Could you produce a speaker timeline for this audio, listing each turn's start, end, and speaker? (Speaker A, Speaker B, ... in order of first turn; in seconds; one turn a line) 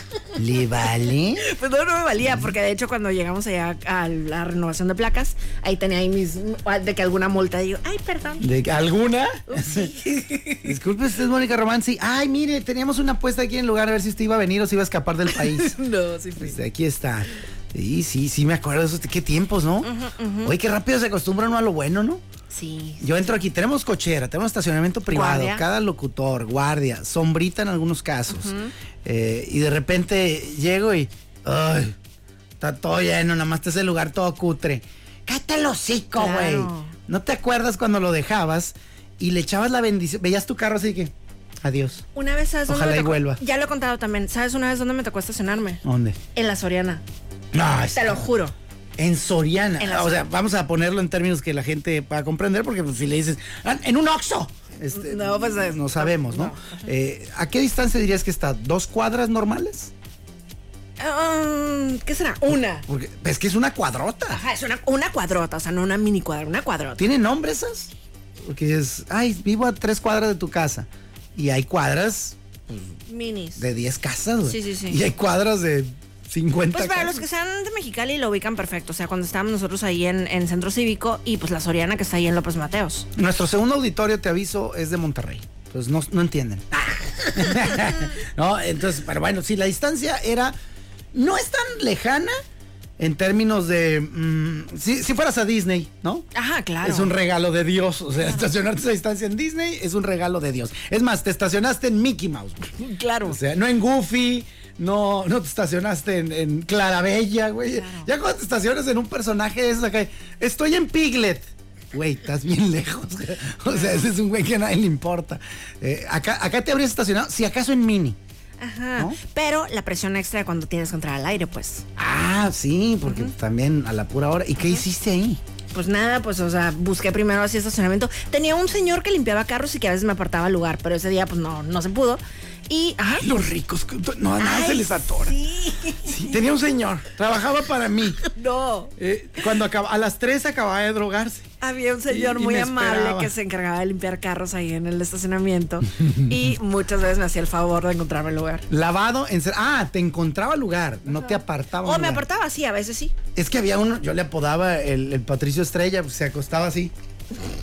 Speaker A: 0.4-1.5
Speaker B: 1.4-8.5
Speaker A: 8.4-9.9
Speaker B: 9.5-10.7
Speaker A: 10.6-15.8
Speaker B: 15.3-16.6
Speaker A: 16.4-19.9
Speaker B: 19.8-20.5
Speaker A: 20.4-22.2
Speaker B: 22.5-23.3
Speaker A: 23.0-32.0
Speaker B: 25.1-25.6
Speaker B: 28.3-28.7
Speaker A: 32.6-42.1
Speaker B: 36.2-36.9
Speaker B: 42.1-45.8
Speaker A: 42.7-43.4
Speaker A: 45.8-46.2
Speaker B: 46.3-47.0
Speaker A: 47.5-48.3
Speaker B: 47.9-48.5
Speaker A: 49.0-59.9
Speaker B: 49.8-50.2
Speaker B: 54.9-56.9
Speaker B: 61.0-62.9
Speaker A: 62.5-64.4
Speaker B: 64.3-67.0
Speaker A: 67.0-67.9
Speaker A: 68.5-72.9
Speaker B: 73.1-73.6
Speaker A: 73.6-77.2
Speaker B: 74.5-75.0
Speaker B: 76.7-83.1
Speaker A: 83.2-90.5
Speaker A: 91.1-92.4
Speaker A: 93.0-96.3
Speaker B: 96.3-97.1
Speaker A: 96.8-118.2
Speaker B: 102.8-103.4
Speaker B: 107.7-108.1
Speaker B: 113.7-114.1
Speaker B: 118.6-121.9
Speaker A: 122.0-125.4
Speaker B: 123.0-123.3
Speaker B: 125.7-133.3
Speaker A: 133.2-135.4
Speaker B: 134.4-136.3
Speaker A: 136.1-138.2
Speaker B: 138.3-138.9
Speaker A: 139.0-141.5
Speaker B: 141.6-148.7
Speaker A: 142.1-143.3
Speaker A: 148.7-152.3
Speaker B: 151.1-153.1
Speaker A: 153.3-156.9